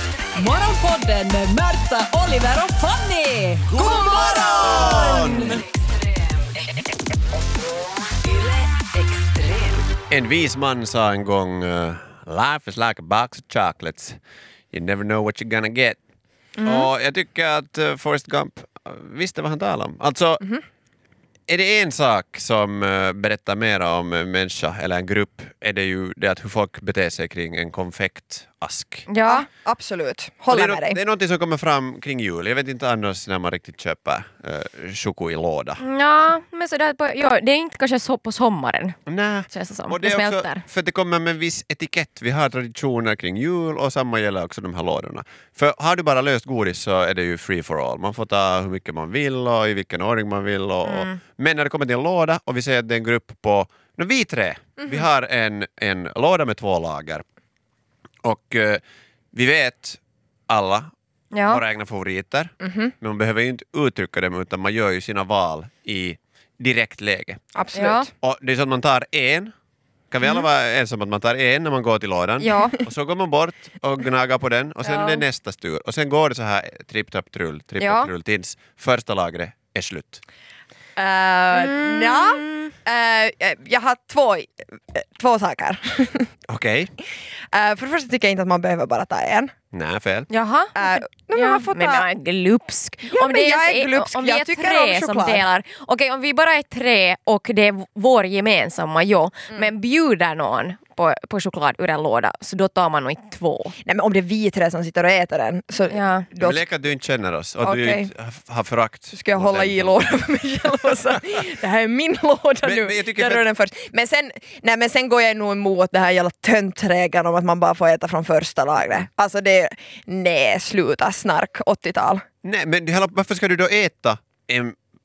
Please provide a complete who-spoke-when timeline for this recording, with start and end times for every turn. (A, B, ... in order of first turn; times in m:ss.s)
0:00.3-0:05.6 A
0:03.7-0:05.6 B
0:08.3-0:09.8 A
0:10.1-0:14.2 B
0:14.7-0:16.0 B
0:16.6-0:16.9 C
0:16.6-0:20.4 B
0:21.5-0:29.1 B
0:29.1-0:29.4 C
0:29.2-0:31.0 D
0:30.5-0:35.8 B
0:35.8-0:39.0 C
0:39.1-0:57.2 B
0:39.5-0:40.6 C
0:50.8-0:51.2 C
0:58.2-0:58.8 B
0:59.3-1:00.9 B
1:01.3-1:01.6 C
1:01.5-1:07.4 B
1:02.6-1:02.9 D
1:07.5-1:08.0 D
1:07.7-1:08.1 C
1:08.1-1:09.5 B
1:10.1-1:20.2 B
1:12.4-1:12.8 C
1:14.8-1:15.2 C
1:17.8-1:18.1 C
1:21.0-1:26.3 D
1:21.5-1:22.7 C
1:26.5-1:26.9 B
1:27.5-1:29.5 D
1:29.7-1:30.3 B
1:30.3-1:43.8 C
1:30.7-1:32.1 D
1:33.1-1:35.4 D
1:43.8-1:46.6 D
1:45.9-1:46.3 C
1:46.4-1:50.2 B
1:47.6-1:48.1 D
1:49.1-2:02.2 D
1:52.6-1:53.4 B
2:02.4-2:04.8 B